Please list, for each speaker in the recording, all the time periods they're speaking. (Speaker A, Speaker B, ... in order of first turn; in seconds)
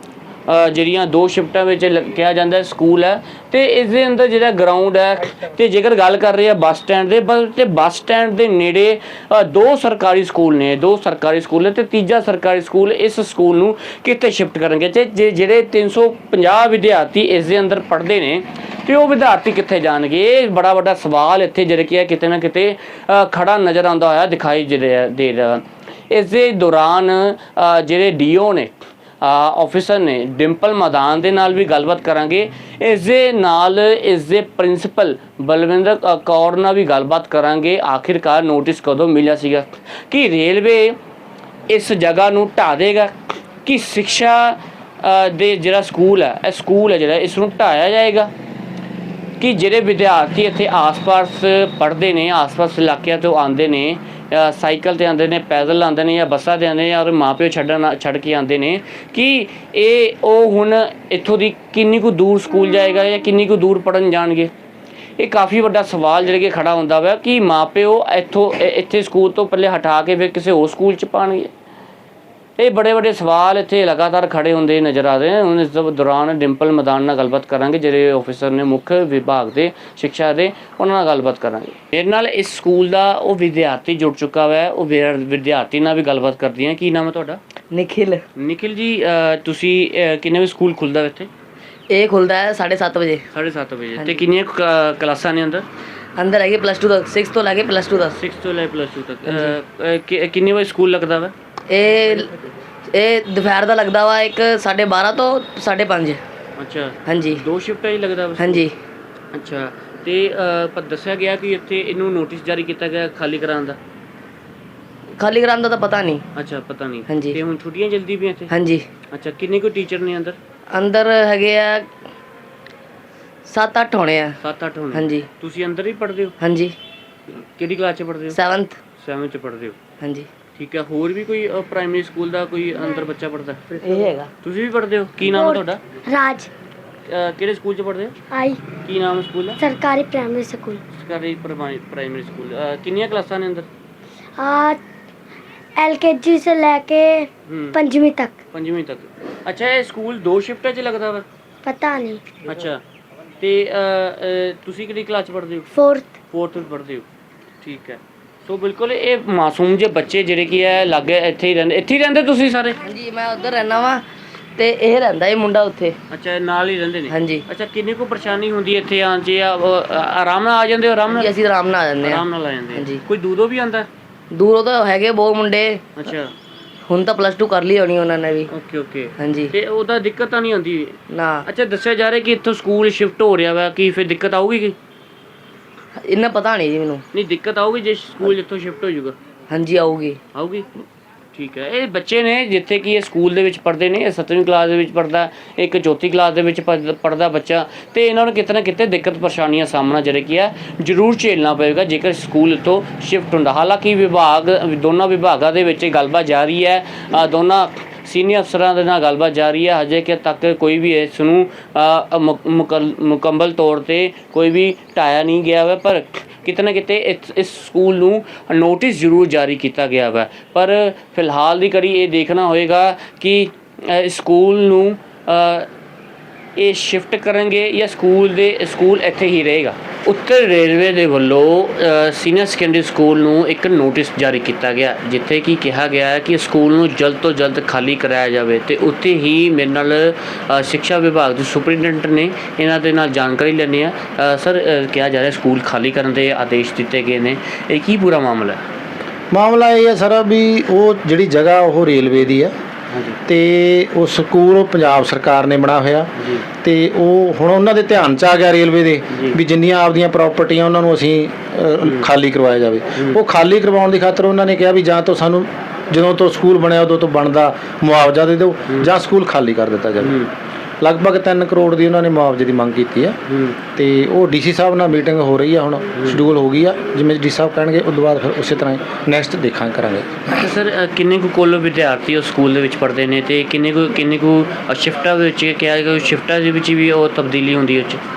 Speaker A: 0.5-41.0, 41.7-48.3, 49.4-64.5, 65.2-71.5, 72.6-87.4, 88.4-91.3, 93.3-95.7, 98.1-101.3, 106.6-108.7, 109.3-113.8, 116.3-118.5, 119.1-120.4, 124.4-126.3, 127.3-128.4, 129.0-129.8, 130.6-133.6, 134.4-135.8, 137.1-138.2, 138.8-139.6, 140.9-143.7, 147.5-147.8, 148.5-151.3, 152.4-152.8, 153.4-155.7, 156.3-157.1, 157.6-162.8, 166.1-171.4, 172.0-173.9, 176.0-176.3, 178.5-184.8, 187.1-189.2, 190.3-190.7, 191.3-225.7, 226.6-248.6, 252.9-253.2, 256.2-256.4, 259.1-259.4, 270.0-270.3, 273.3-273.6, 280.3-288.0
Speaker B: 87.7-88.2, 91.9-93.2, 94.0-94.3, 96.2-98.2, 99.3-99.5, 101.7-106.2, 107.1-107.4, 108.4-108.8, 115.2-116.2, 117.1-117.4, 118.5-118.8, 120.7-121.9, 123.5-124.4, 124.9-125.3, 126.4-126.8, 128.3-128.8, 130.0-130.3, 133.7-134.3, 162.8-166.0, 167.1-167.5, 171.1-173.0, 174.3-175.8, 176.9-178.5, 179.2-179.6, 181.1-181.5, 186.0-187.0, 189.5-190.2
Speaker C: 135.3-136.5, 138.3-138.6, 139.6-140.8, 144.4-144.8, 145.8-148.4, 151.7-152.3, 155.7-156.2
Speaker D: 249.3-252.5, 253.3-270.2, 270.8-273.2, 273.8-280.3